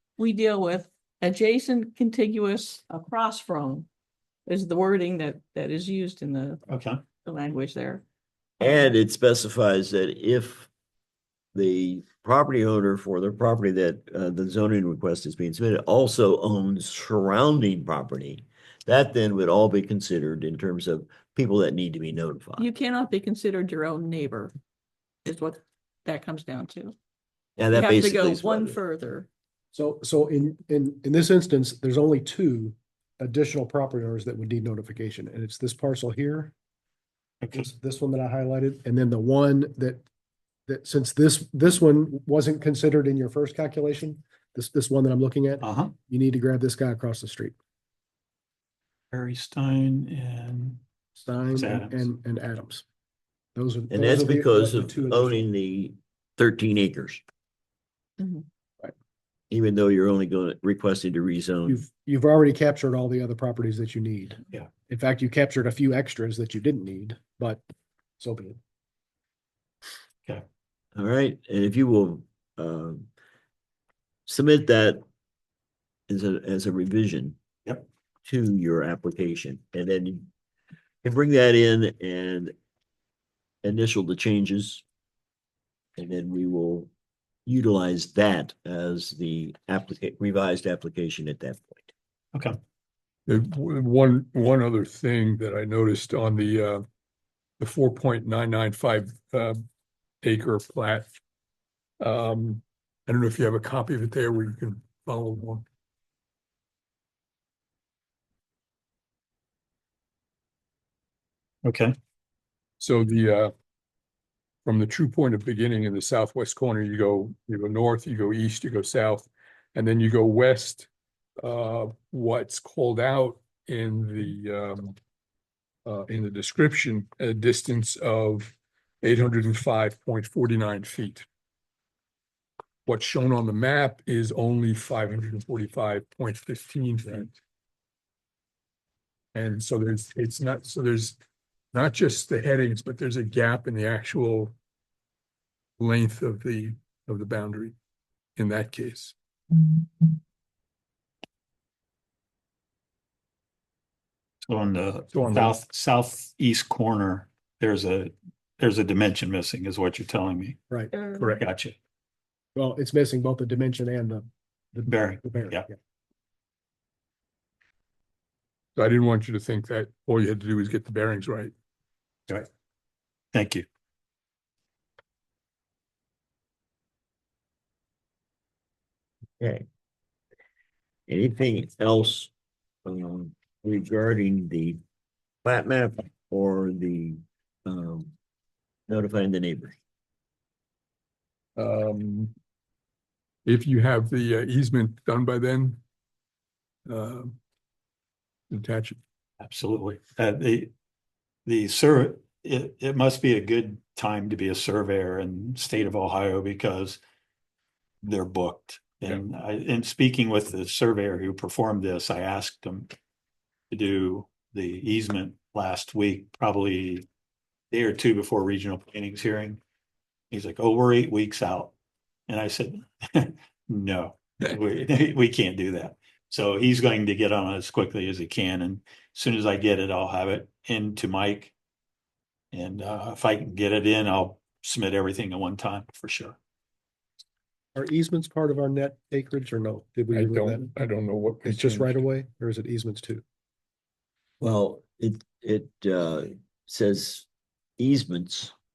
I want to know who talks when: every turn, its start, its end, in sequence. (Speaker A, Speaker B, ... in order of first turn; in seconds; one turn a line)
Speaker A: 0.2-3.9
Speaker A: 4.5-6.6
Speaker B: 6.7-7.0
Speaker A: 7.2-8.0
Speaker C: 8.6-10.7
Speaker C: 11.5-22.6
Speaker A: 22.6-24.5
Speaker A: 25.2-26.9
Speaker C: 27.6-28.8
Speaker A: 27.7-29.3
Speaker D: 29.7-36.5
Speaker B: 37.4-37.7
Speaker D: 37.5-40.0
Speaker D: 40.7-47.5
Speaker B: 45.6-45.9
Speaker B: 49.1-50.8
Speaker D: 51.1-52.8
Speaker B: 51.5-52.1
Speaker D: 53.5-55.5
Speaker C: 53.9-57.2
Speaker A: 58.2-58.4
Speaker C: 59.5-61.8
Speaker D: 61.7-67.6
Speaker D: 68.2-68.6
Speaker C: 71.0-73.1
Speaker C: 74.3-75.0
Speaker C: 76.1-77.4
Speaker C: 78.2-80.3
Speaker C: 81.0-82.5
Speaker C: 83.6-84.8
Speaker C: 86.0-86.9
Speaker C: 87.5-91.9
Speaker E: 93.3-96.8
Speaker E: 97.6-99.6
Speaker E: 100.2-101.1
Speaker E: 102.0-105.7
Speaker B: 111.6-111.9
Speaker E: 112.8-113.5
Speaker E: 114.6-120.9
Speaker E: 121.4-125.0
Speaker E: 125.8-131.2
Speaker E: 132.8-137.4
Speaker E: 139.3-141.2
Speaker E: 141.7-144.5
Speaker E: 145.8-147.7
Speaker E: 148.3-149.1
Speaker B: 154.4-160.6
Speaker E: 155.1-155.6
Speaker A: 160.9-161.3
Speaker E: 161.2-161.4
Speaker B: 161.4-161.7
Speaker D: 162.6-165.8
Speaker B: 164.9-165.7
Speaker E: 168.8-171.5
Speaker B: 173.3-173.7
Speaker C: 179.4-179.6
Speaker C: 181.1-182.3
Speaker C: 182.8-184.8
Speaker C: 185.4-188.1
Speaker C: 188.9-189.8
Speaker E: 191.6-192.3
Speaker E: 193.4-195.8
Speaker E: 196.9-197.4
Speaker E: 198.5-199.0
Speaker B: 199.4-200.7
Speaker B: 201.4-207.0
Speaker B: 208.0-212.9
Speaker B: 213.7-217.1
Speaker B: 217.7-219.6
Speaker B: 220.3-221.7
Speaker B: 222.3-231.5
Speaker B: 232.5-236.4
Speaker D: 237.7-240.7
Speaker E: 240.1-242.0
Speaker D: 241.4-243.2
Speaker C: 244.4-247.3
Speaker C: 247.8-248.5